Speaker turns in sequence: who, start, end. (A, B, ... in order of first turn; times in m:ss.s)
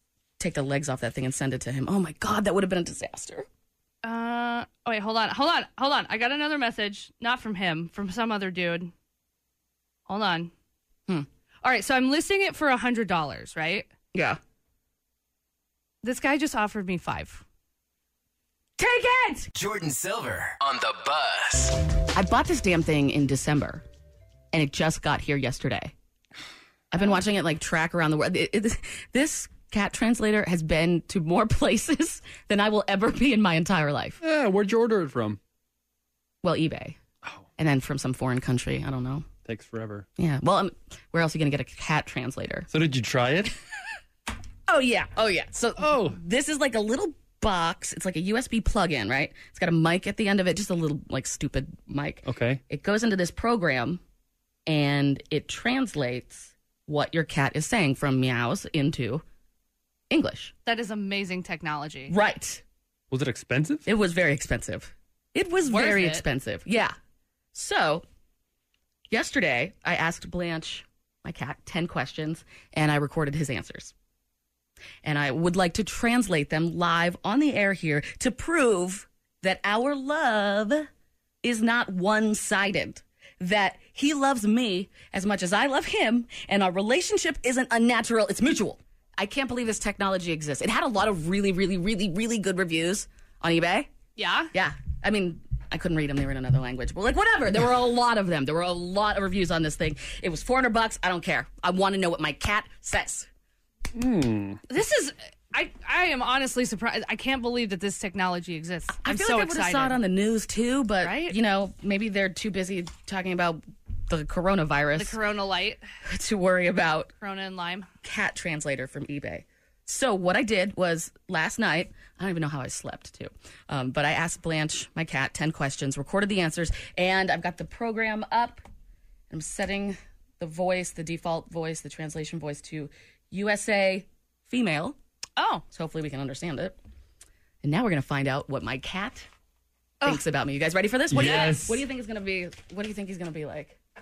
0:00.4-0:03.5 A
0:04.0-0:08.9 B
0:10.1-0:10.5 B
0:11.6-0:13.9 B
0:14.1-0:14.4 A
0:16.0-0:17.4 B
0:18.8-0:19.5 A
0:19.5-0:21.8 C
0:22.1-0:23.8 A
0:24.5-0:25.9 A
0:26.9-0:34.2 A
0:34.2-0:35.4 D
0:36.4-0:37.0 A
0:37.6-0:39.2 A
0:39.4-0:40.0 D
0:40.2-0:42.7 A
0:42.7-0:43.5 D
0:44.7-0:54.0 A
0:45.8-0:46.2 D
0:52.2-0:52.6 D
0:54.7-0:59.2 A
1:00.1-1:00.5 A
1:00.6-1:02.1 B
1:02.1-1:02.6 A
1:03.1-1:03.8 D
1:03.8-1:07.0 A
1:05.6-1:06.2 B
1:07.5-1:08.0 A
1:09.1-1:13.9 A
1:15.0-1:20.9 A
1:21.4-1:33.9 A
1:34.2-1:34.5 B
1:34.5-1:43.3 A
1:43.9-1:44.6 D
1:44.7-1:50.0 B
1:49.0-1:55.2 A
1:51.0-1:51.4 B
1:55.0-1:55.8 B
1:56.0-1:57.1 A
1:57.2-1:57.9 B
1:58.0-2:08.6 A
2:09.3-2:15.0 A
2:15.4-2:15.6 B
2:15.7-2:16.8 A
2:17.6-2:19.3 A
2:20.0-2:23.8 A
2:21.1-2:21.8 D
2:21.2-2:21.6 B